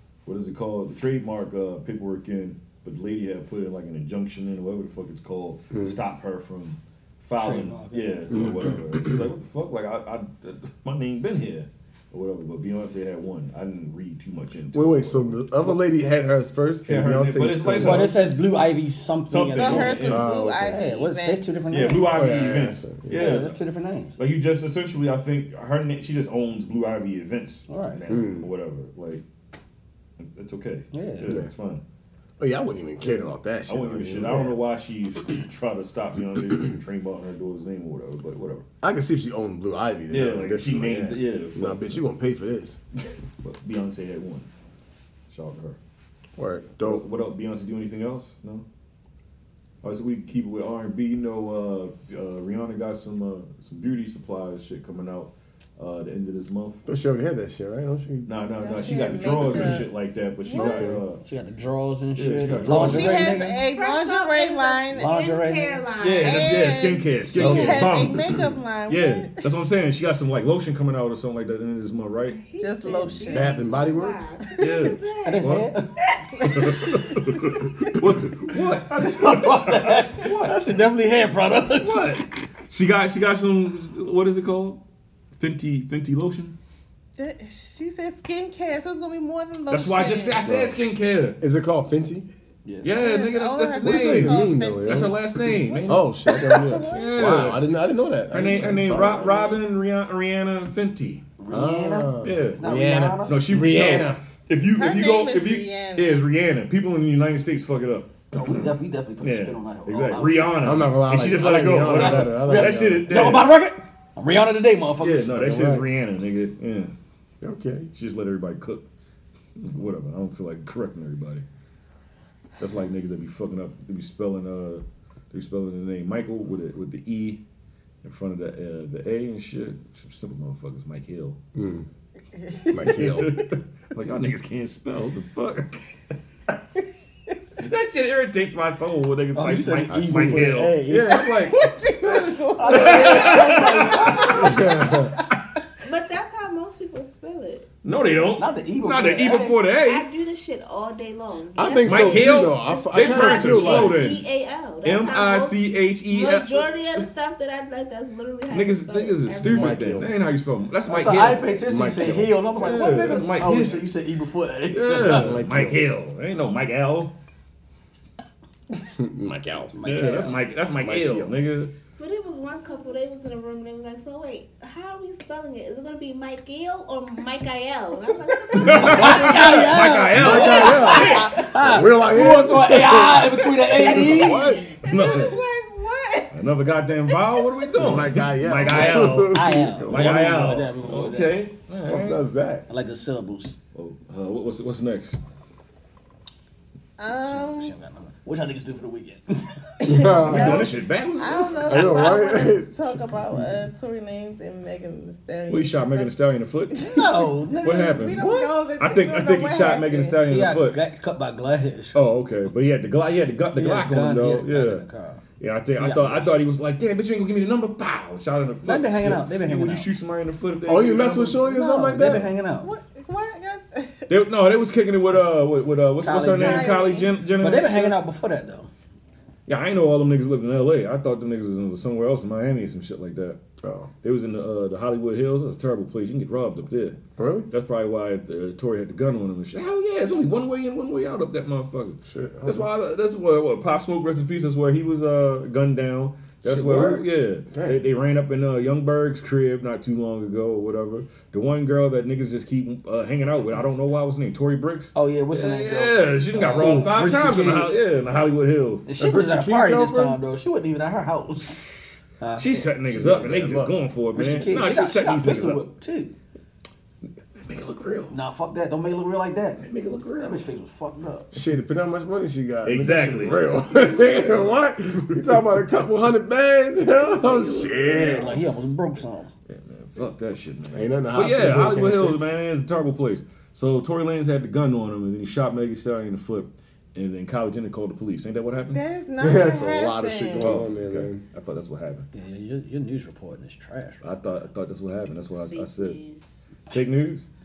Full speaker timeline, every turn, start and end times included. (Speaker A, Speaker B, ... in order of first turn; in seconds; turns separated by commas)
Speaker A: 0.2-15.6, Speaker B: 5.7-6.0, Speaker C: 7.4-8.3, Speaker B: 8.3-9.2, Speaker B: 14.7-18.1, Speaker A: 16.8-18.4, Speaker C: 17.8-22.3, Speaker A: 19.3-20.3, Speaker D: 19.5-21.9, Speaker B: 20.1-20.7, Speaker A: 21.7-23.6, Speaker B: 22.1-23.2, Speaker C: 23.1-24.1, Speaker A: 24.2-29.2, Speaker C: 27.7-28.0, Speaker B: 28.1-28.5, Speaker A: 30.2-31.8, Speaker C: 30.9-31.3, Speaker B: 31.2-31.5, Speaker B: 32.4-34.6, Speaker A: 33.7-38.6, Speaker B: 38.8-42.8, Speaker A: 40.1-42.0, Speaker A: 43.4-44.5, Speaker A: 45.3-45.8, Speaker B: 46.4-47.0, Speaker A: 46.8-48.6, Speaker A: 49.8-56.8, Speaker B: 56.9-58.3, Speaker A: 58.2-61.2, Speaker D: 58.6-59.9, Speaker B: 58.9-59.8, Speaker D: 60.5-60.8, Speaker B: 60.5-61.0, Speaker C: 61.2-63.6, Speaker A: 62.1-63.4, Speaker D: 62.8-65.2, Speaker E: 63.0-66.6, Speaker C: 64.9-65.8, Speaker A: 66.0-72.4, Speaker D: 66.2-69.5, Speaker C: 67.4-67.7, Speaker B: 67.4-67.8, Speaker E: 72.3-75.4, Speaker D: 72.6-73.6, Speaker B: 73.3-74.3, Speaker D: 74.5-75.0, Speaker A: 74.6-75.7, Speaker C: 75.2-75.9, Speaker D: 76.4-76.8, Speaker A: 76.5-80.6, Speaker C: 78.9-82.3, Speaker A: 81.8-84.8, Speaker A: 85.4-86.6, Speaker D: 87.2-90.5, Speaker A: 89.7-91.4, Speaker B: 90.4-90.8, Speaker B: 91.4-92.3, Speaker C: 92.6-92.9, Speaker A: 92.8-97.6, Speaker D: 92.9-97.3, Speaker B: 93.8-95.1, Speaker B: 95.9-99.5, Speaker A: 98.3-101.2, Speaker C: 101.4-103.4, Speaker B: 101.5-104.2, Speaker A: 102.2-102.7, Speaker A: 103.2-113.6, Speaker D: 104.7-106.2, Speaker C: 108.3-110.6, Speaker B: 110.6-113.1, Speaker C: 111.9-115.5, Speaker A: 115.0-116.9, Speaker B: 115.3-115.8, Speaker B: 117.4-117.9, Speaker A: 117.9-118.8, Speaker A: 119.5-121.4, Speaker A: 122.6-127.4, Speaker A: 128.0-131.4, Speaker B: 131.5-131.9, Speaker D: 132.4-133.1, Speaker B: 132.7-133.3, Speaker A: 132.9-135.8, Speaker A: 137.6-144.3, Speaker C: 139.3-141.3, Speaker B: 139.9-140.5, Speaker D: 141.1-145.2, Speaker C: 142.6-144.6, Speaker B: 144.4-145.1, Speaker E: 145.8-147.7, Speaker A: 147.8-150.1, Speaker C: 148.4-149.5, Speaker E: 149.7-159.8, Speaker B: 151.5-154.1, Speaker A: 151.8-154.2, Speaker A: 154.8-157.1, Speaker A: 158.5-161.5, Speaker B: 159.4-160.1, Speaker C: 160.8-165.3, Speaker B: 161.6-162.4, Speaker A: 162.6-163.8, Speaker A: 164.7-167.1, Speaker B: 165.0-165.8, Speaker B: 168.8-171.3, Speaker C: 169.7-170.3, Speaker A: 169.8-171.7, Speaker E: 172.0-181.2, Speaker A: 178.6-181.3, Speaker C: 178.6-184.6, Speaker B: 180.1-184.7, Speaker E: 183.8-186.4, Speaker A: 183.8-184.2, Speaker A: 184.9-185.4, Speaker A: 186.3-192.2, Speaker E: 187.1-187.7, Speaker B: 187.7-190.2, Speaker C: 188.7-191.4, Speaker B: 191.9-192.6, Speaker C: 192.7-193.6, Speaker A: 193.7-195.2, Speaker D: 197.0-197.7, Speaker C: 197.2-200.6, Speaker B: 199.8-200.7, Speaker D: 199.9-206.1, Speaker A: 200.2-202.2, Speaker B: 201.7-203.4, Speaker A: 205.5-206.9, Speaker D: 206.7-210.2, Speaker C: 206.8-208.1, Speaker A: 207.6-210.8, Speaker C: 210.2-212.0, Speaker A: 211.9-214.8, Speaker C: 213.6-215.2, Speaker A: 215.4-221.4, Speaker C: 215.8-216.3, Speaker C: 218.6-219.9, Speaker B: 220.7-222.3, Speaker C: 221.4-222.7, Speaker D: 222.6-224.1, Speaker A: 224.1-227.9, Speaker C: 226.0-226.8, Speaker D: 226.3-227.2, Speaker C: 227.4-228.7, Speaker A: 229.5-233.4, Speaker B: 233.6-233.9, Speaker A: 234.0-237.0, Speaker B: 237.2-237.5, Speaker A: 237.5-258.9, Speaker B: 242.1-242.7, Speaker B: 246.4-247.8, Speaker C: 254.9-257.7, Speaker C: 258.9-261.6, Speaker B: 259.0-260.2, Speaker C: 262.2-262.7, Speaker A: 262.4-265.6, Speaker B: 262.9-263.8, Speaker C: 264.1-266.1, Speaker A: 267.4-268.1, Speaker C: 268.1-271.3, Speaker B: 269.6-270.4, Speaker B: 271.3-278.3, Speaker A: 272.6-273.6, Speaker A: 277.2-278.4, Speaker C: 278.0-279.3, Speaker A: 279.5-288.8, Speaker B: 280.7-282.3, Speaker D: 288.7-290.6, Speaker B: 289.2-291.2, Speaker A: 290.4-292.1, Speaker C: 292.1-294.1, Speaker A: 294.0-296.0, Speaker E: 295.3-296.2, Speaker A: 296.7-297.2